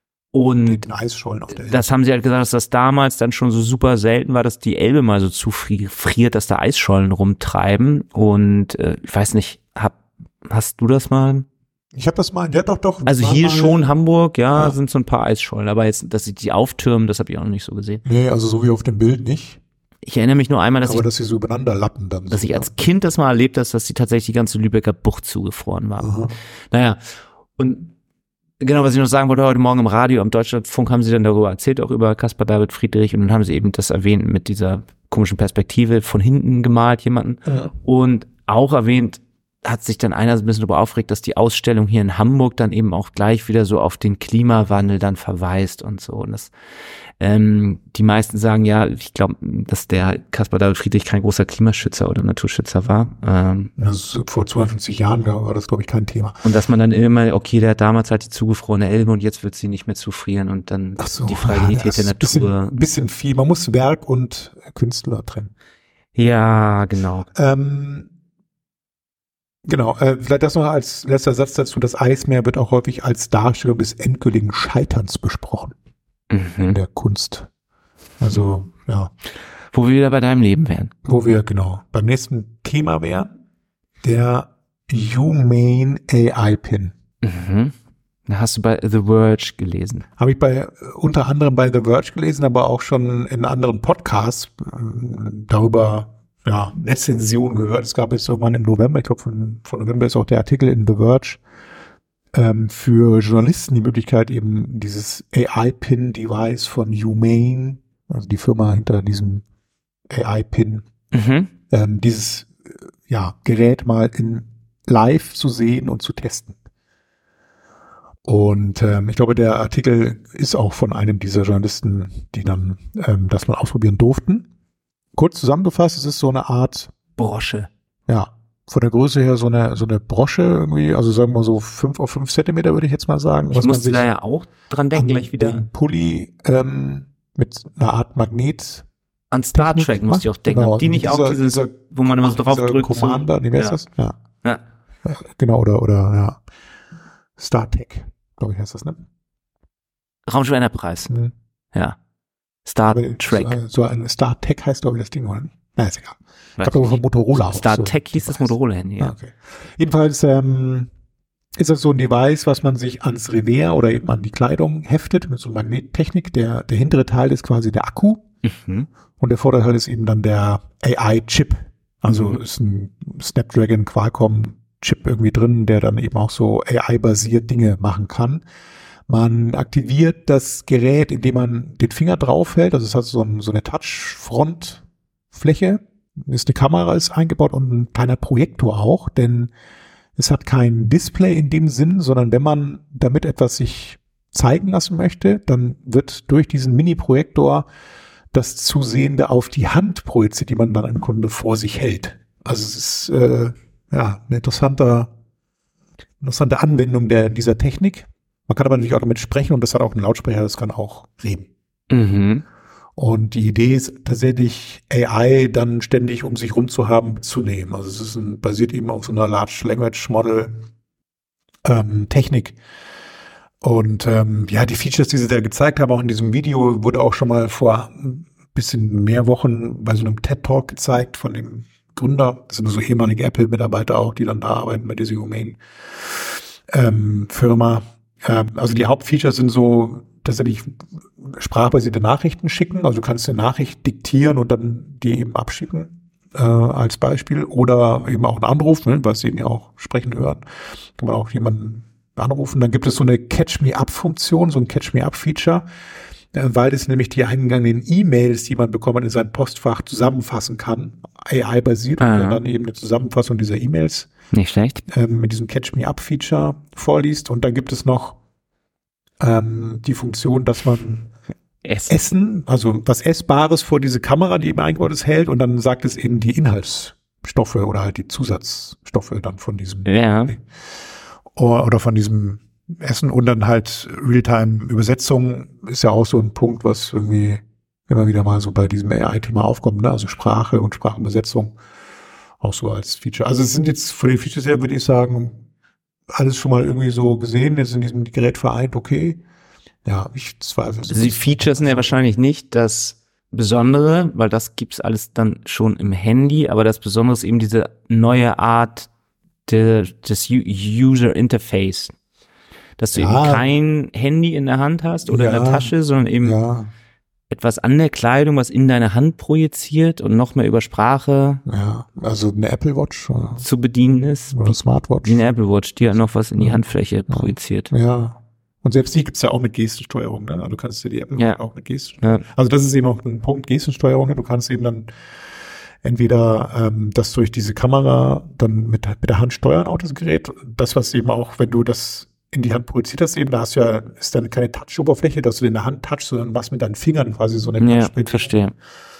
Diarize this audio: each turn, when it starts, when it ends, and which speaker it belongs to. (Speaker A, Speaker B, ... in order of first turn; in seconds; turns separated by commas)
Speaker A: 0.3-0.8, Speaker B: 0.6-1.8, Speaker A: 1.6-11.4, Speaker B: 11.9-13.8, Speaker A: 13.0-18.0, Speaker B: 18.0-19.6, Speaker A: 20.0-21.1, Speaker B: 20.8-22.7, Speaker A: 22.3-26.2, Speaker B: 26.0-26.3, Speaker A: 26.7-27.0, Speaker A: 27.6-27.9, Speaker A: 28.6-46.5, Speaker B: 37.5-37.7, Speaker A: 47.2-53.7, Speaker B: 53.8-56.4, Speaker A: 56.4-62.7, Speaker B: 61.0-65.5, Speaker A: 66.2-67.3, Speaker B: 67.3-68.1, Speaker B: 69.7-75.7, Speaker A: 76.3-76.8, Speaker B: 76.6-77.5, Speaker B: 78.2-79.1, Speaker A: 79.7-80.9, Speaker B: 81.0-83.3, Speaker B: 84.0-86.9, Speaker A: 87.2-87.7, Speaker A: 88.3-90.1, Speaker B: 90.2-101.4, Speaker B: 102.3-109.4, Speaker B: 110.1-110.8, Speaker A: 111.1-111.5, Speaker B: 111.7-116.6, Speaker B: 118.2-124.5, Speaker B: 125.1-126.9, Speaker A: 127.2-127.7, Speaker B: 128.1-134.1, Speaker A: 133.5-135.6, Speaker B: 134.9-138.8, Speaker A: 139.3-143.8, Speaker B: 139.5-144.1, Speaker B: 145.0-146.4, Speaker B: 147.4-149.0, Speaker A: 150.3-151.1, Speaker B: 151.1-151.3, Speaker A: 152.7-153.6, Speaker B: 152.9-160.9, Speaker A: 156.6-159.2, Speaker B: 161.6-168.2, Speaker A: 168.4-168.9, Speaker B: 169.2-178.4, Speaker A: 172.1-172.4, Speaker B: 179.1-189.5, Speaker B: 190.2-197.7, Speaker B: 198.3-205.1, Speaker B: 206.2-211.5, Speaker A: 211.9-212.4, Speaker B: 212.9-220.6, Speaker B: 221.6-222.6, Speaker B: 223.6-250.4, Speaker B: 251.0-255.6, Speaker B: 256.3-264.1, Speaker A: 262.0-262.4, Speaker A: 264.3-264.8, Speaker B: 264.9-268.2, Speaker B: 269.2-271.1, Speaker A: 271.6-272.0, Speaker B: 271.9-280.4, Speaker A: 279.8-280.3, Speaker B: 281.3-291.6, Speaker B: 292.4-295.4, Speaker B: 296.1-299.2, Speaker B: 299.9-301.9, Speaker A: 300.9-308.9, Speaker A: 309.4-311.9, Speaker A: 312.8-316.4, Speaker B: 312.9-313.5, Speaker B: 315.1-316.7, Speaker A: 317.3-321.4, Speaker B: 321.4-323.4, Speaker A: 323.4-324.5, Speaker B: 324.3-325.2, Speaker A: 325.0-327.7, Speaker B: 327.1-334.9, Speaker A: 331.1-331.4, Speaker B: 335.8-348.3, Speaker A: 347.6-348.5